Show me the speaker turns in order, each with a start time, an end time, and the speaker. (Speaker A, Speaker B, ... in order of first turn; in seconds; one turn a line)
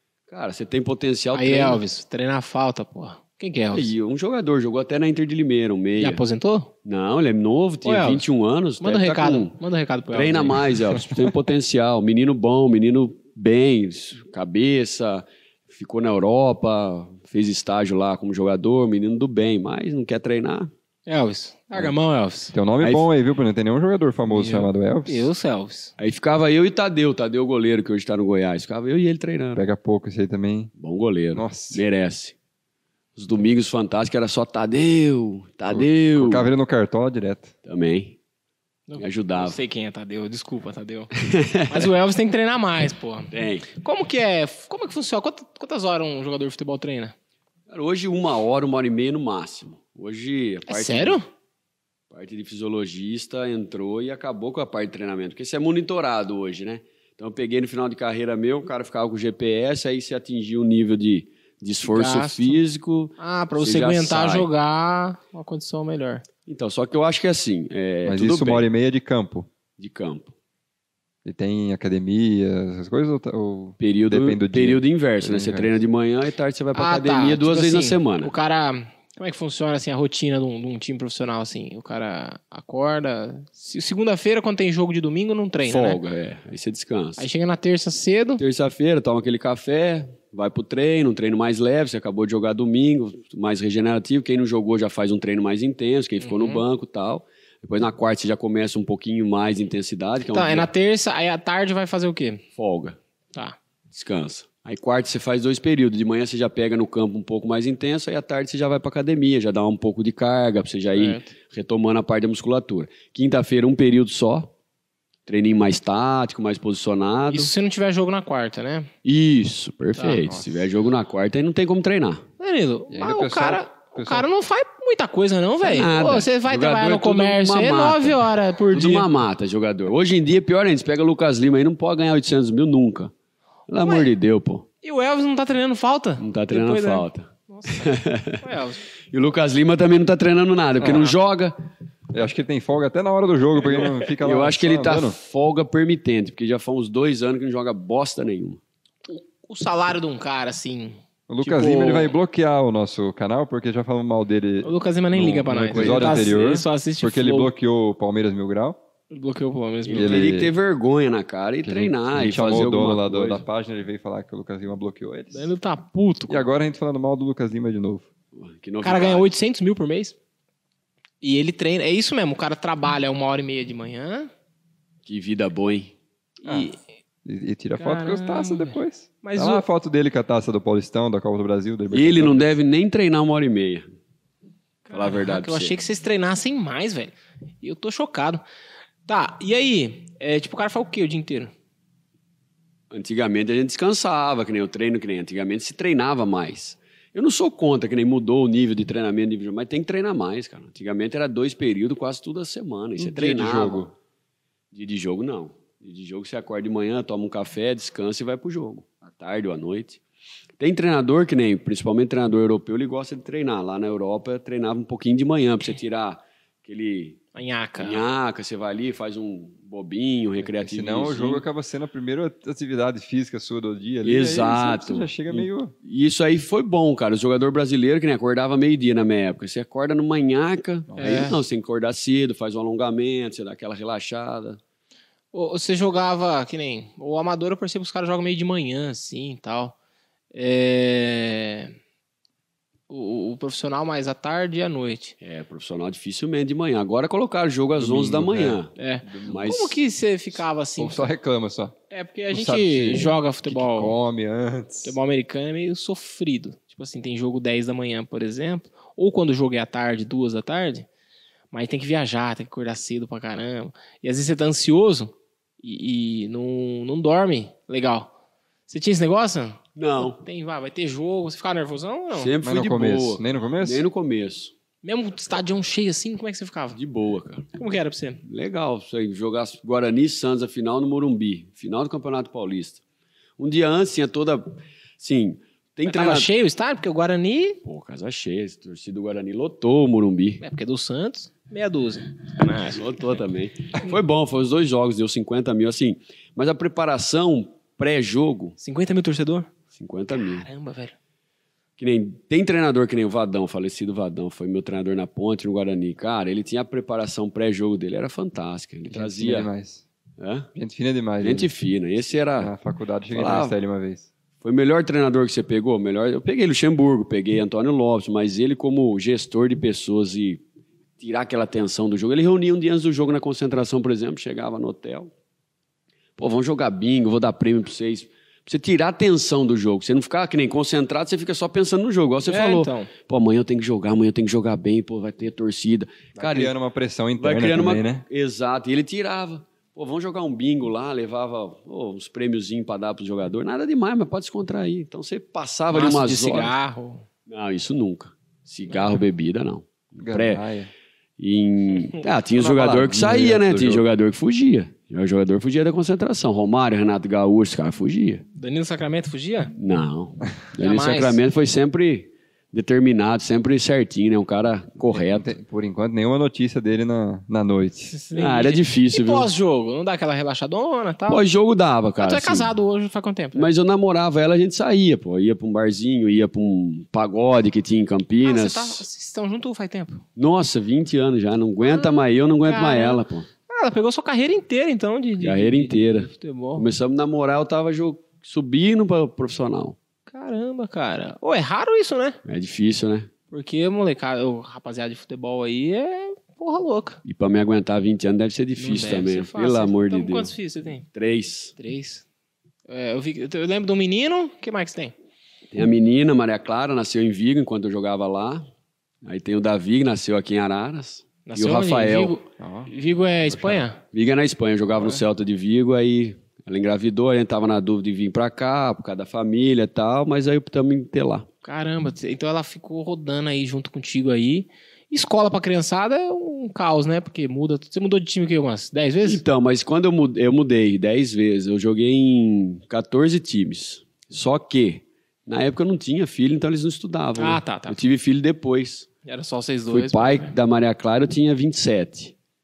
Speaker A: 0.3-1.8
Speaker B: 1.3-3.9
Speaker A: 3.7-6.2
Speaker B: 6.0-6.7
Speaker A: 6.8-9.6
Speaker B: 7.8-8.2
Speaker B: 8.8-11.3
Speaker A: 10.1-20.7
Speaker B: 21.1-22.5
Speaker C: 22.5-25.3
Speaker A: 22.8-23.1
Speaker B: 24.3-25.9
Speaker A: 26.0-29.6
Speaker C: 29.6-30.7
Speaker A: 30.8-32.4
Speaker C: 31.3-31.8
Speaker A: 33.2-36.5
Speaker C: 35.7-37.5
Speaker A: 37.6-38.2
Speaker B: 38.9-41.1
Speaker A: 39.0-39.6
Speaker A: 41.2-41.9
Speaker B: 41.7-47.1
Speaker A: 43.3-43.7
Speaker A: 47.7-51.2
Speaker B: 50.7-51.2
Speaker A: 52.1-64.5
Speaker B: 61.9-62.6
Speaker B: 63.2-66.2
Speaker A: 66.5-68.7
Speaker C: 68.0-69.5
Speaker A: 69.8-70.3
Speaker C: 71.2-75.8
Speaker A: 73.8-78.3
Speaker B: 76.8-86.0
Speaker A: 85.7-87.3
Speaker B: 87.2-88.4
Speaker A: 88.4-100.7
Speaker B: 96.2-96.6
Speaker B: 100.3-102.4
Speaker A: 102.6-103.0
Speaker A: 103.9-114.5
Speaker B: 110.9-111.3
Speaker A: 115.3-117.5
Speaker B: 117.3-118.9
Speaker A: 119.0-122.2
Speaker B: 120.0-120.2
Speaker C: 120.3-120.7
Speaker B: 122.4-129.1
Speaker C: 122.9-124.3
Speaker A: 125.6-133.1
Speaker A: 133.7-134.7
Speaker B: 133.8-134.1
Speaker B: 134.8-138.8
Speaker A: 136.2-138.4
Speaker A: 139.1-141.5
Speaker C: 140.8-141.2
Speaker C: 142.1-145.2
Speaker A: 144.2-148.6
Speaker B: 149.1-152.2
Speaker C: 151.3-158.8
Speaker B: 154.6-157.5
Speaker A: 155.7-156.3
Speaker B: 159.1-160.3
Speaker A: 159.8-163.4
Speaker C: 159.9-160.5
Speaker C: 161.6-165.5
Speaker B: 165.3-166.4
Speaker C: 166.3-168.1
Speaker A: 168.3-169.3
Speaker B: 168.8-170.2
Speaker B: 171.2-174.3
Speaker A: 175.1-175.9
Speaker B: 176.4-176.8
Speaker C: 176.4-176.7
Speaker C: 177.2-182.5
Speaker B: 177.8-179.7
Speaker A: 181.9-183.9
Speaker B: 184.9-188.4
Speaker A: 184.9-185.8
Speaker B: 189.1-191.5
Speaker A: 192.9-203.9
Speaker C: 203.0-203.9
Speaker A: 204.7-210.0
Speaker A: 210.6-217.2
Speaker B: 217.3-218.0
Speaker A: 217.8-221.4
Speaker C: 220.6-225.7
Speaker A: 224.0-234.6
Speaker C: 230.9-231.3
Speaker B: 231.0-231.4
Speaker B: 235.3-239.8
Speaker B: 240.3-241.7
Speaker B: 242.9-245.2
Speaker A: 245.2-248.7
Speaker C: 247.8-249.5
Speaker B: 248.8-251.1
Speaker A: 249.2-249.8
Speaker C: 250.8-251.8
Speaker B: 251.9-253.9
Speaker C: 252.3-255.0
Speaker B: 254.8-260.9
Speaker B: 261.5-268.1
Speaker B: 268.7-272.3
Speaker A: 269.8-270.2
Speaker A: 272.1-274.6
Speaker C: 272.4-273.9
Speaker B: 274.8-276.8
Speaker A: 276.7-277.5
Speaker B: 277.6-278.2
Speaker A: 278.2-282.8
Speaker A: 283.4-286.3
Speaker B: 285.9-287.6
Speaker A: 287.6-290.4
Speaker B: 290.4-293.2
Speaker A: 292.7-298.6
Speaker B: 298.6-299.5
Speaker A: 299.7-300.5
Speaker B: 300.1-301.0
Speaker A: 301.8-309.5
Speaker C: 308.9-309.9
Speaker A: 310.2-310.5
Speaker C: 310.6-311.5
Speaker A: 311.2-312.5
Speaker C: 312.4-314.1
Speaker A: 313.1-313.6
Speaker A: 314.4-320.4
Speaker A: 321.0-325.1
Speaker A: 326.2-336.5
Speaker B: 332.2-332.9
Speaker C: 336.1-338.1
Speaker A: 337.2-346.6
Speaker B: 345.7-347.1
Speaker A: 347.3-350.4
Speaker C: 350.0-350.7
Speaker A: 351.2-358.2
Speaker C: 352.4-353.9
Speaker B: 358.3-359.5
Speaker A: 359.6-365.3
Speaker B: 360.6-361.2
Speaker C: 364.9-367.9
Speaker B: 367.9-371.2
Speaker A: 368.1-369.3
Speaker A: 371.1-372.5
Speaker B: 372.0-373.5
Speaker A: 373.4-378.8
Speaker B: 378.2-380.0
Speaker A: 380.2-383.3
Speaker B: 381.6-386.7
Speaker A: 385.2-389.8
Speaker B: 390.1-392.2
Speaker A: 392.2-393.1
Speaker B: 393.3-397.0
Speaker A: 397.0-400.3
Speaker B: 398.6-400.9
Speaker A: 400.9-401.6
Speaker B: 401.6-402.1
Speaker B: 402.7-404.9
Speaker A: 405.5-408.5
Speaker A: 409.0-412.2
Speaker B: 411.3-413.8
Speaker C: 412.4-412.7
Speaker C: 413.3-413.6
Speaker A: 413.9-421.3
Speaker B: 421.4-429.2
Speaker A: 429.0-438.9
Speaker B: 437.2-437.8
Speaker B: 439.0-440.3
Speaker A: 439.7-442.1